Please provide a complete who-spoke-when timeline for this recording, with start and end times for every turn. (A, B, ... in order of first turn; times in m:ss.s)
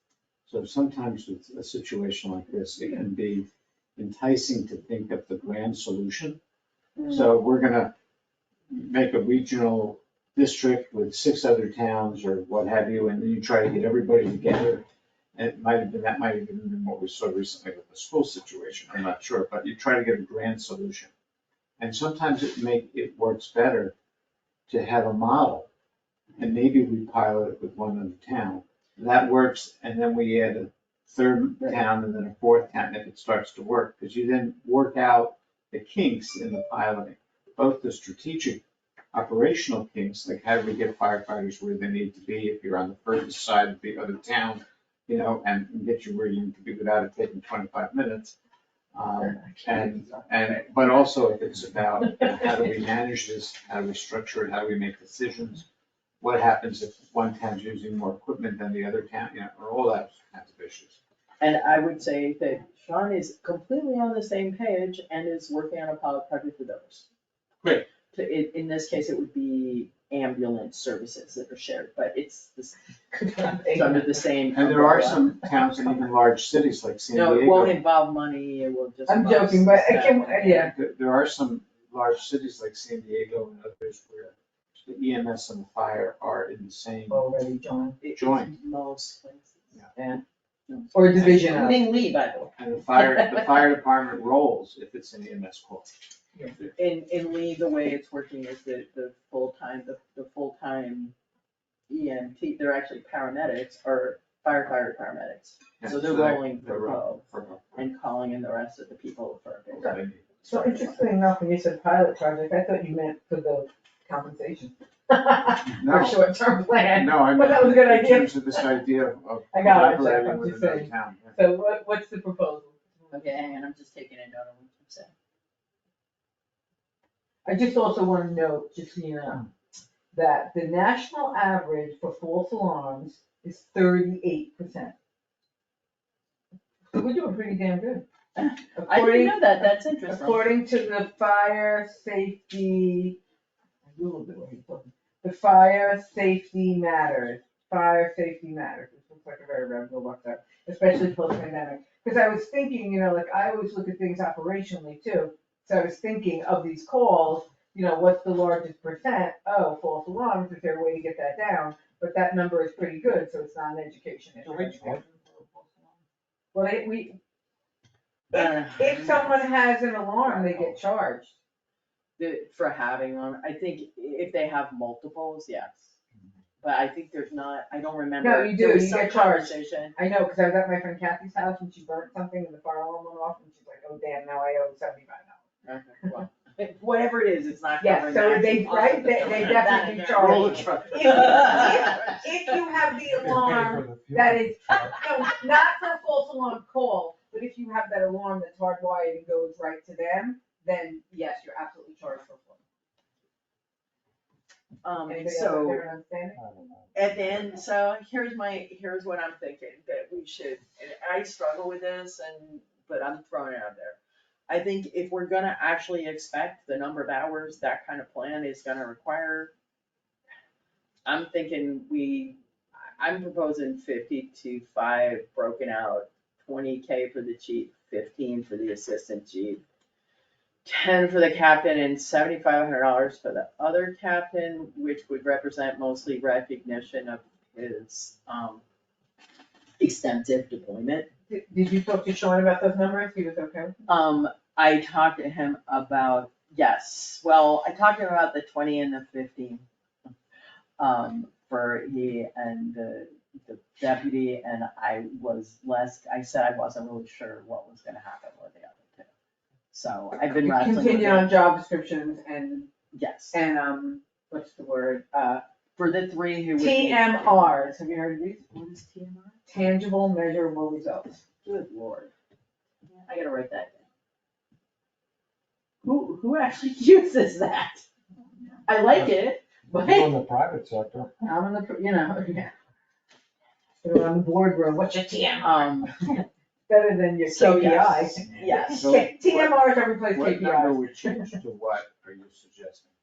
0:00.5-0:06.4 A
0:07.0-0:07.3 B
0:07.1-0:07.9 A
0:08.7-0:14.8 A
0:15.4-0:21.1 A
0:21.8-0:23.9 A
0:24.7-0:25.7 A
0:26.4-0:38.6 A
0:39.1-0:48.3 A
0:48.9-0:55.7 A
0:49.8-0:50.1 C
0:56.2-1:01.0 A
1:01.4-1:07.1 C
1:08.1-1:12.8 C
1:13.1-1:14.2 B
1:13.6-1:15.3 C
1:14.5-1:17.8 A
1:17.1-1:20.7 C
1:19.1-1:20.7 B
1:20.5-1:27.2 A
1:27.1-1:28.0 B
1:28.0-1:29.7 C
1:28.2-1:28.6 A
1:30.0-1:30.2 B
1:30.7-1:33.6 C
1:30.9-1:31.9 B
1:31.1-1:31.7 A
1:32.6-1:35.9 A
1:36.8-1:41.1 C
1:41.9-1:47.2 C
1:45.8-1:47.6 A
1:47.8-1:51.0 C
1:49.7-1:50.3 A
1:50.5-1:58.8 B
1:55.7-1:56.2 A
1:57.0-2:01.4 A
1:59.5-2:03.5 B
2:03.1-2:05.1 C
2:07.4-2:09.5 B
2:10.1-2:14.9 B
2:16.9-2:18.1 B
2:18.4-2:20.4 C
2:18.8-2:23.2 B
2:23.9-2:45.1 B
2:46.5-2:47.2 B
2:48.3-2:49.4 C
2:48.3-2:51.4 B
2:52.2-2:55.9 C
2:56.6-3:00.0 C
2:58.2-3:05.4 B
3:05.6-3:12.2 C
3:07.8-3:22.6 B
3:10.2-3:12.1 A
3:10.5-3:11.5 D
3:13.2-3:15.0 D
3:14.7-3:15.3 C
3:24.8-3:25.9 C
3:25.1-3:26.4 B
3:26.4-3:27.3 A
3:26.9-3:34.0 C
3:34.5-3:39.5 C
3:41.0-3:42.4 C
3:43.0-3:49.6 C
3:50.7-3:58.6 C
3:59.8-4:01.1 C
4:01.3-4:03.9 B
4:03.9-4:09.6 C
4:10.8-4:19.1 C
4:19.7-4:21.3 C
4:20.3-4:22.7 B
4:22.9-4:23.4 C
4:23.3-4:25.4 B
4:25.8-4:27.8 C
4:26.6-4:28.4 B
4:28.5-4:29.4 C
4:29.5-4:31.2 B
4:31.4-4:32.1 C
4:32.9-4:33.8 C
4:35.8-4:37.8 C
4:38.7-4:40.2 C
4:39.7-4:41.1 D
4:41.2-4:42.5 B
4:43.8-4:50.8 B
4:45.4-4:45.9 C
4:47.3-4:48.9 C
4:48.6-4:52.9 A